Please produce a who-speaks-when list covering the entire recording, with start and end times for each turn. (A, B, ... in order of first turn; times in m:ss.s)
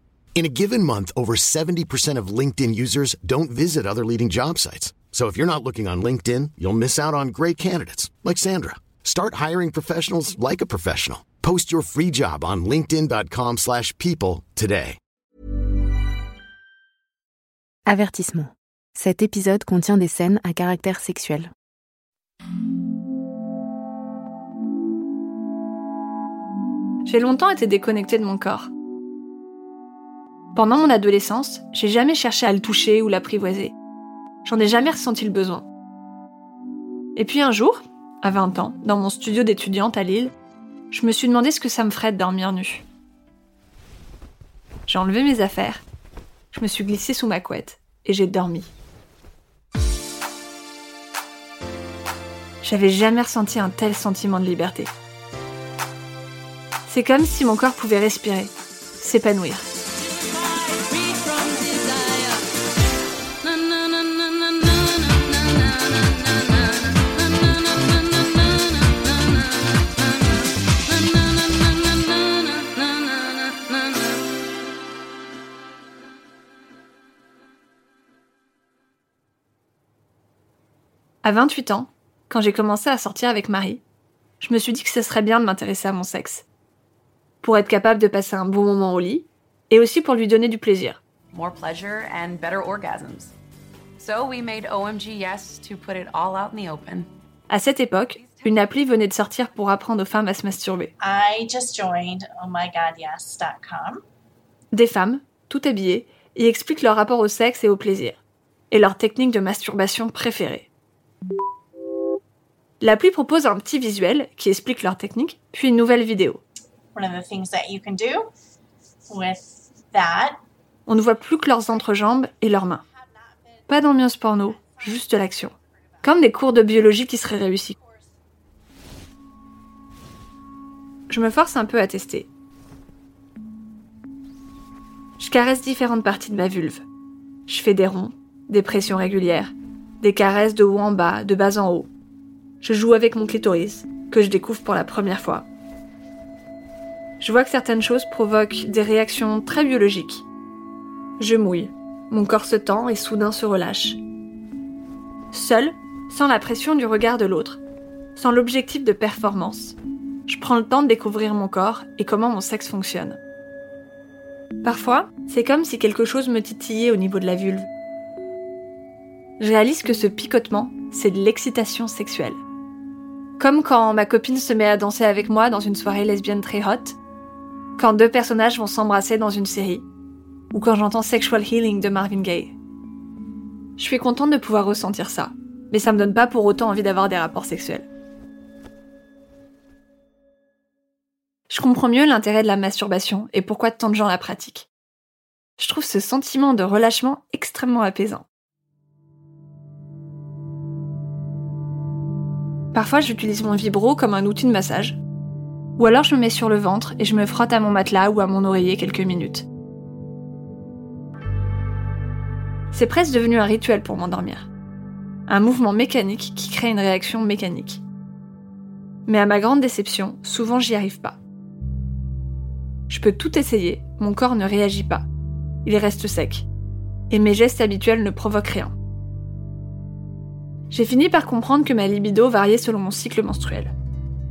0:00.4-0:15.0 A
0:17.9-0:21.5 B
0:27.0-0:28.7 C
0:30.5-0:33.7 C
0:34.4-0:35.6 C
0:37.1-0:40.3 C
0:40.9-0:42.8 C
0:44.9-0:45.8 C
0:46.5-0:48.7 C
0:52.6-0:54.9 C
0:56.9-0:59.6 C
1:00.9-1:02.0 D
1:21.2-1:23.8 C
1:24.4-1:26.4 C
1:27.4-1:31.0 C
1:31.3-1:33.3 D
1:34.0-1:37.1 D
1:37.5-1:40.9 C
1:41.0-1:44.0 E
1:44.7-1:48.2 C
1:48.7-1:50.7 C
1:52.8-1:56.4 C
1:56.9-1:58.2 E
1:59.1-2:00.4 E
2:00.9-2:02.8 C
2:03.7-2:05.5 C
2:06.0-2:07.7 C
2:11.1-2:12.3 C
2:15.2-2:16.8 C
2:17.5-2:21.9 C
2:22.6-2:25.4 C
2:27.2-2:30.2 C
2:31.2-2:34.0 C
2:35.3-2:37.6 C
2:38.2-2:43.2 C
2:44.6-2:47.7 C
2:49.4-2:52.4 C
2:53.4-2:57.0 C
2:57.8-2:59.8 C
3:00.5-3:02.5 C
3:03.8-3:07.8 C
3:11.5-3:14.7 C
3:15.6-3:18.2 C
3:22.7-3:25.0 C
3:25.8-3:29.5 C
3:32.7-3:34.5 C
3:35.3-3:37.8 C
3:39.0-3:41.2 C
3:42.9-3:45.0 C
3:45.6-3:46.5 C
3:47.1-3:48.7 C
3:50.7-3:53.7 C